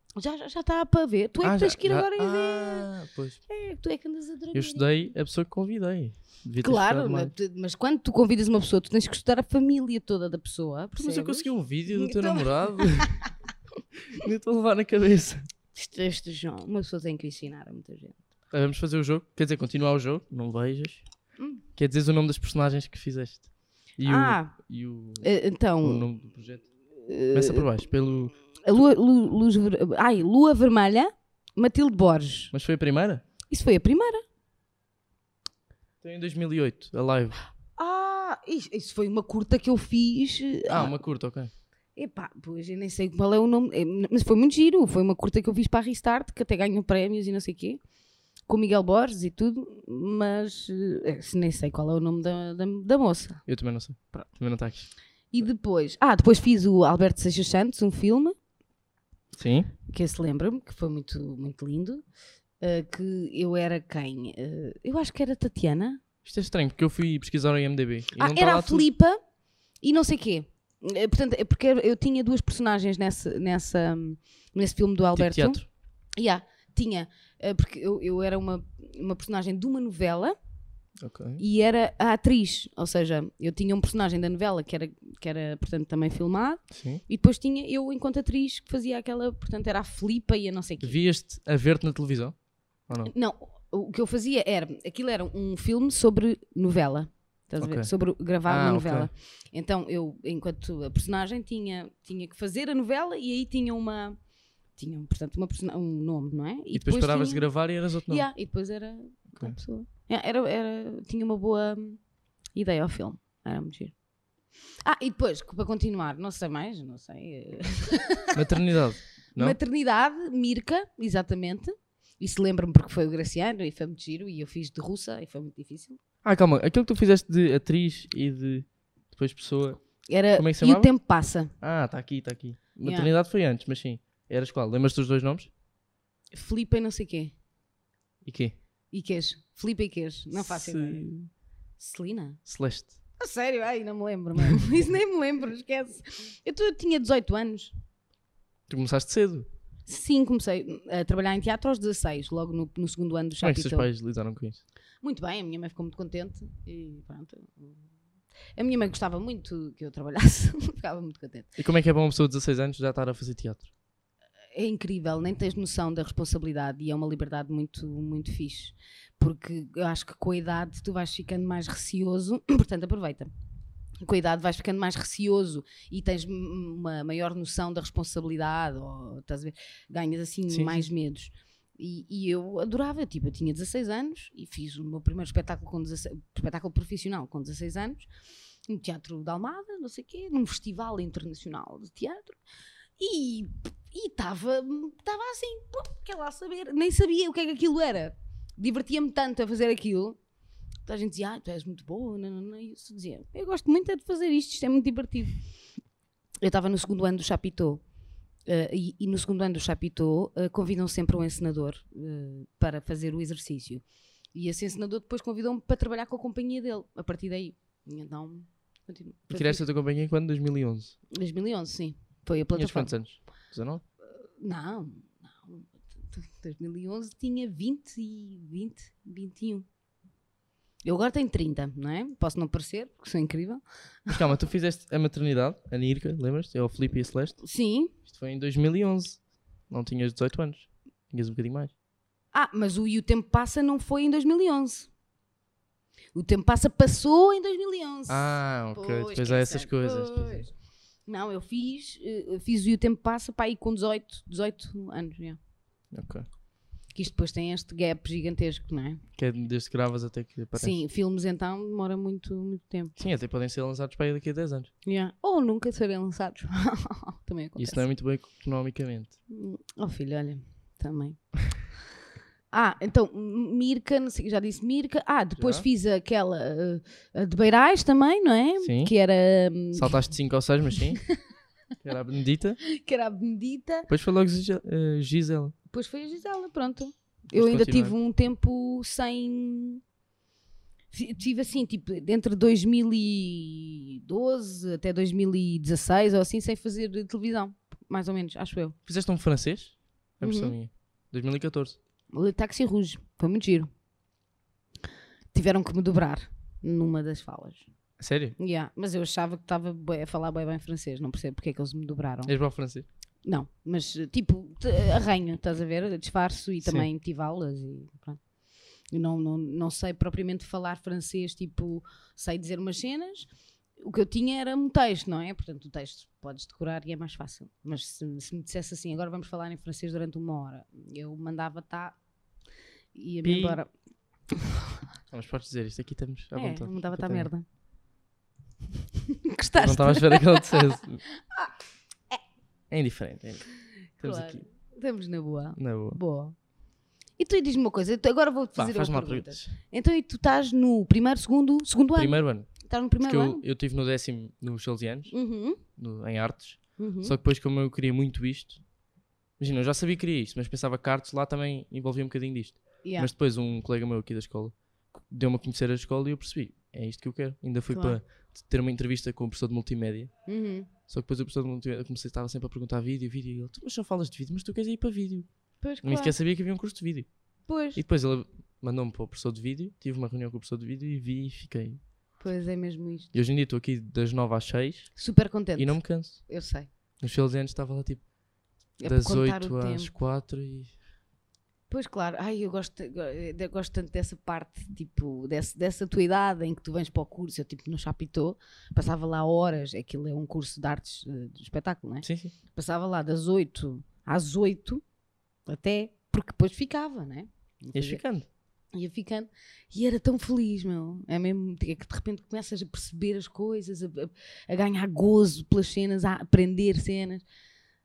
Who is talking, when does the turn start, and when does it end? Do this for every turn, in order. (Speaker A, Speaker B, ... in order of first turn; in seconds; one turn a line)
Speaker A: 0.2-2.9
Speaker B: 1.4-3.4
Speaker A: 3.5-4.9
Speaker B: 4.5-7.3
Speaker A: 6.6-13.3
Speaker B: 10.9-13.2
Speaker B: 14.1-15.5
Speaker A: 15.7-18.2
Speaker B: 18.5-21.1
Speaker A: 21.4-21.6
Speaker B: 21.7-25.3
Speaker A: 24.0-24.5
Speaker A: 25.2-26.1
Speaker B: 25.8-26.7
Speaker A: 27.0-27.7
Speaker B: 27.3-28.3
Speaker A: 28.6-32.5
Speaker B: 32.5-33.2
Speaker A: 33.5-34.2
Speaker B: 36.0-37.4
Speaker A: 37.8-40.9
Speaker B: 40.7-41.5
Speaker A: 42.0-47.8
Speaker A: 48.5-53.4
Speaker B: 53.5-55.4
Speaker A: 55.3-58.4
Speaker B: 59.3-59.7
Speaker A: 59.9-62.0
Speaker A: 62.6-66.0
Speaker B: 66.2-68.9
Speaker A: 68.2-69.2
Speaker A: 69.8-75.6
Speaker B: 75.1-75.6
Speaker A: 76.2-80.3
Speaker B: 81.0-81.4
Speaker A: 81.4-91.0
Speaker B: 86.7-87.0
Speaker B: 90.8-92.3
Speaker B: 92.9-93.1
Speaker A: 93.0-104.2
Speaker B: 97.6-97.9
Speaker B: 98.4-99.1
Speaker A: 104.8-107.5
Speaker B: 106.7-108.3
Speaker A: 108.1-112.0
Speaker A: 112.5-113.9
Speaker A: 114.8-118.6
Speaker B: 118.3-119.6
Speaker A: 119.3-126.0
Speaker B: 126.2-129.8
Speaker A: 130.1-131.5
Speaker B: 130.3-130.9
Speaker B: 131.6-135.5
Speaker A: 132.8-133.1
Speaker A: 136.3-137.3
Speaker B: 138.2-138.6
Speaker A: 138.9-141.1
Speaker B: 140.3-141.3
Speaker A: 141.8-142.4
Speaker B: 142.4-142.9
Speaker A: 143.2-147.7
Speaker B: 148.7-149.5
Speaker A: 149.9-153.9
Speaker B: 153.4-154.6
Speaker A: 155.0-157.8
Speaker A: 158.6-161.5
Speaker B: 161.6-163.7
Speaker A: 164.5-173.3
Speaker A: 174.0-188.1
Speaker B: 180.5-180.9
Speaker A: 188.7-192.4
Speaker A: 193.0-200.2
Speaker A: 200.8-205.4
Speaker A: 206.4-207.8
Speaker A: 208.5-213.8
Speaker A: 214.3-219.6
Speaker B: 219.3-220.9
Speaker A: 221.1-222.9
Speaker B: 222.5-223.8
Speaker A: 224.4-229.7
Speaker A: 230.8-234.2
Speaker B: 234.1-237.4
Speaker A: 237.4-237.9
Speaker B: 238.1-241.7
Speaker A: 242.3-244.9
Speaker A: 246.1-250.5
Speaker B: 248.1-250.5
Speaker A: 251.1-255.4
Speaker B: 255.9-256.2
Speaker A: 256.9-259.0
Speaker B: 259.1-260.8
Speaker A: 260.5-262.9
Speaker B: 263.0-264.7
Speaker A: 264.8-267.9
Speaker B: 267.6-269.1
Speaker A: 269.3-271.2
Speaker A: 272.5-280.0
Speaker B: 275.4-275.7
Speaker B: 278.6-278.9
Speaker B: 279.7-281.0
Speaker B: 281.8-282.6
Speaker A: 282.6-283.9
Speaker B: 283.9-285.5
Speaker A: 285.7-289.8
Speaker B: 287.3-287.9
Speaker A: 290.9-298.8
Speaker B: 298.9-301.8
Speaker A: 300.2-300.5
Speaker A: 302.1-303.7
Speaker A: 305.3-307.7
Speaker B: 308.0-308.4
Speaker A: 308.4-312.3
Speaker B: 312.2-312.9
Speaker A: 313.2-318.2
Speaker B: 316.6-316.9
Speaker A: 318.9-323.3
Speaker A: 323.8-332.0
Speaker A: 332.9-333.7
Speaker B: 333.2-333.6
Speaker B: 335.1-337.3
Speaker A: 336.3-337.4
Speaker A: 339.2-340.7
Speaker B: 339.6-341.0
Speaker B: 342.7-344.4
Speaker A: 344.0-346.4
Speaker B: 345.6-346.0
Speaker A: 347.2-353.4
Speaker B: 348.6-349.5
Speaker B: 351.9-355.1
Speaker A: 355.1-355.6
Speaker B: 355.7-358.6
Speaker A: 356.8-357.1
Speaker B: 359.4-370.1
Speaker A: 362.8-363.1
Speaker A: 367.7-368.0
Speaker A: 370.3-370.7
Speaker B: 370.9-375.3
Speaker A: 375.6-376.1
Speaker B: 375.8-377.1
Speaker A: 377.5-377.8
Speaker B: 377.7-381.8
Speaker A: 382.2-383.1
Speaker B: 383.1-385.0
Speaker A: 384.9-386.7
Speaker B: 385.5-386.3
Speaker B: 387.0-388.1
Speaker A: 388.8-389.9
Speaker B: 388.8-390.7
Speaker A: 391.7-404.8
Speaker B: 402.0-402.3
Speaker A: 405.5-408.0
Speaker B: 407.7-408.3
Speaker A: 408.7-417.2